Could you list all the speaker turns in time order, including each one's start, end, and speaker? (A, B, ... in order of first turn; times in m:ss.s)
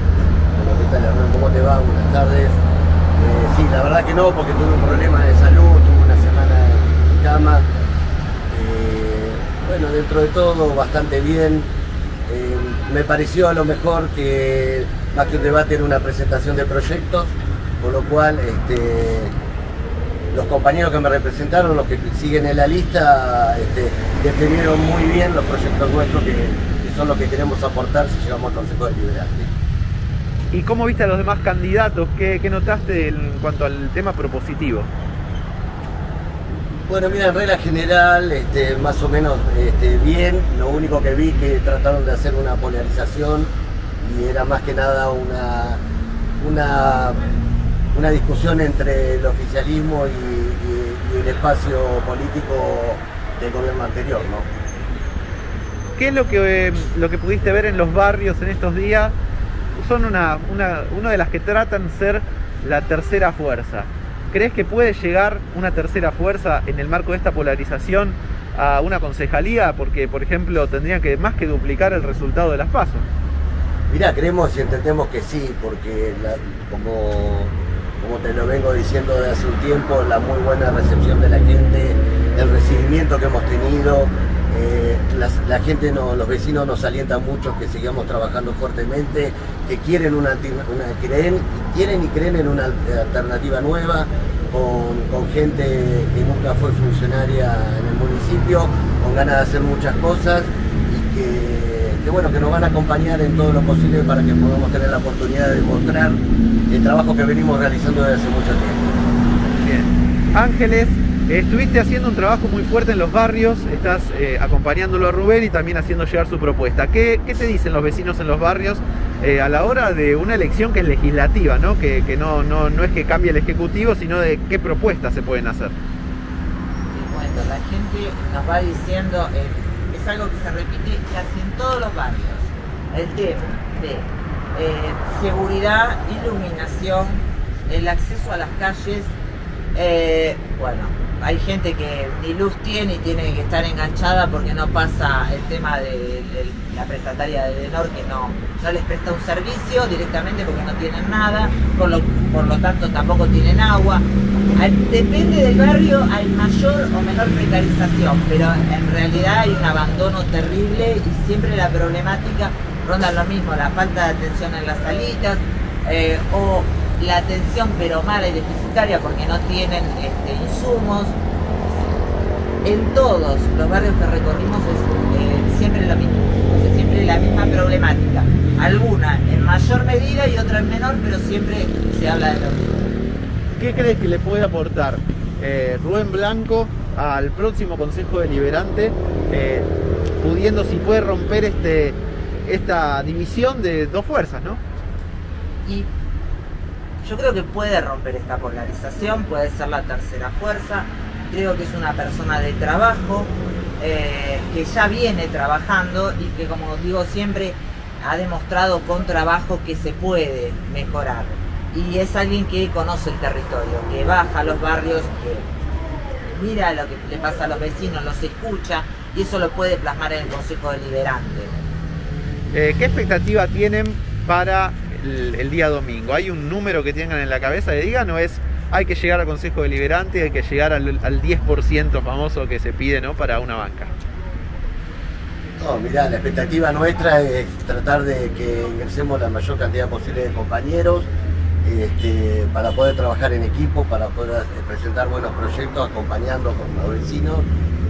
0:00.5-0:02.6 A
0:03.1-0:07.6 A
0:08.5-0:11.7 A
0:12.2-0:19.3 A
0:20.3-0:29.5 A
0:30.5-0:34.9 B
0:36.9-0:43.5 A
0:44.0-0:45.8 A
0:46.4-0:47.2 A
0:47.9-0:54.5 A
0:56.0-0:59.1 B
0:59.8-1:13.0 B
1:13.9-1:46.2 A
1:46.7-1:48.9 A
1:49.6-2:05.7 B
2:06.9-2:19.1 C
2:19.7-2:51.2 C
2:52.6-3:02.9 C
3:03.6-3:09.7 B
3:10.2-3:14.6 B
3:17.0-3:35.5 C
3:36.3-3:41.5 C
3:42.5-3:53.9 B
3:55.6-4:01.1 A
4:01.6-4:07.4 A